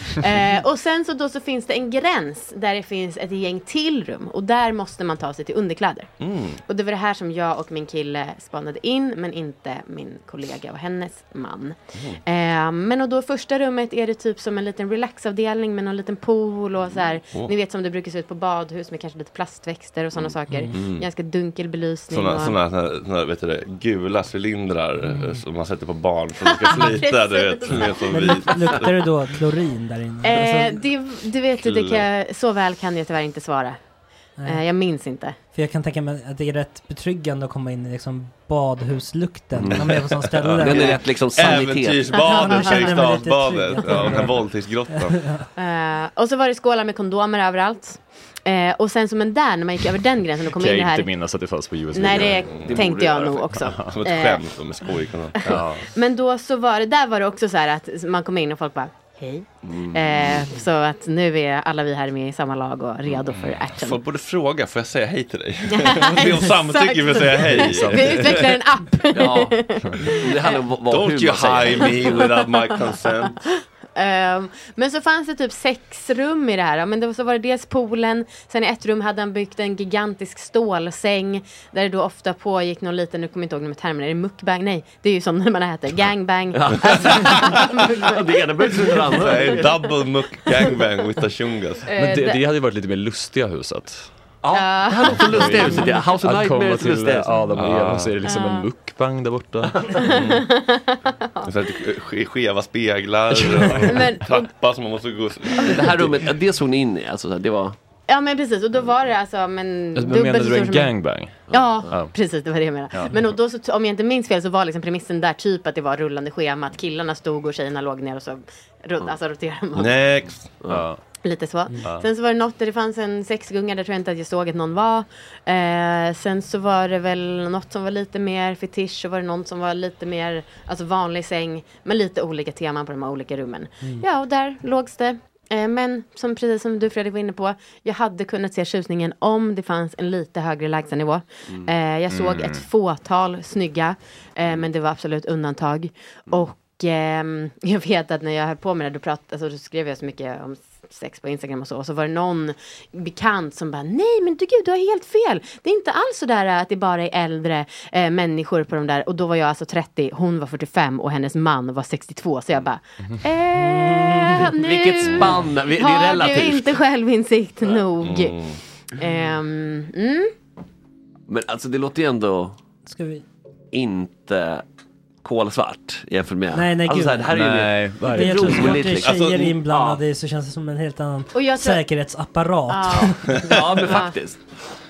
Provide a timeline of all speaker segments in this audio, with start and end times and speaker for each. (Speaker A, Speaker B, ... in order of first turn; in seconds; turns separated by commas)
Speaker A: 0.1-22.6, Speaker B: 6.2-6.6, Speaker B: 11.9-12.2, Speaker C: 20.5-20.7, Speaker B: 20.7-21.1, Speaker B: 22.1-29.1, Speaker C: 25.0-25.4, Speaker A: 26.6-28.8, Speaker C: 28.1-30.9, Speaker A: 30.2-35.4, Speaker B: 31.6-32.0, Speaker C: 34.4-34.6, Speaker C: 35.5-41.6, Speaker D: 39.5-42.2, Speaker B: 39.7-45.2, Speaker A: 42.1-42.9, Speaker C: 42.2-45.5, Speaker A: 45.5-51.4, Speaker E: 50.6-52.7, Speaker A: 51.9-64.0, Speaker B: 52.5-53.3, Speaker D: 52.6-53.4, Speaker E: 53.6-53.9, Speaker B: 53.9-55.6, Speaker E: 55.4-55.9, Speaker D: 59.6-60.5, Speaker B: 63.3-68.5, Speaker A: 65.7-70.5, Speaker E: 67.6-68.3, Speaker D: 69.1-72.2, Speaker B: 70.9-73.4, Speaker A: 74.0-87.8, Speaker D: 86.5-87.5, Speaker D: 88.0-89.8, Speaker B: 89.1-91.9, Speaker A: 89.2-89.8, Speaker A: 91.9-92.4, Speaker E: 92.0-94.1, Speaker D: 94.4-97.7, Speaker A: 94.5-95.8, Speaker E: 95.2-100.1, Speaker B: 97.6-98.1, Speaker A: 98.2-98.7, Speaker D: 99.8-100.0, Speaker A: 100.0-101.5, Speaker B: 100.1-100.5, Speaker B: 101.4-106.3, Speaker A: 103.8-104.4, Speaker D: 105.6-107.8, Speaker A: 108.1-120.2, Speaker E: 110.0-112.2, Speaker D: 111.5-111.9, Speaker B: 119.8-120.6, Speaker E: 120.7-121.0, Speaker A: 121.2-168.4, Speaker E: 142.1-142.7, Speaker C: 163.6-164.6, Speaker D: 164.5-166.8, Speaker B: 168.0-168.6, Speaker A: 168.9-170.3, Speaker C: 169.0-169.3, Speaker D: 171.3-172.6, Speaker C: 172.8-173.2, Speaker D: 173.7-174.6, Speaker D: 175.2-180.0, Speaker C: 176.5-177.5, Speaker E: 177.3-178.6, Speaker C: 178.0-183.4, Speaker B: 178.6-179.6, Speaker A: 181.3-181.8, Speaker A: 182.7-184.2, Speaker D: 183.3-184.6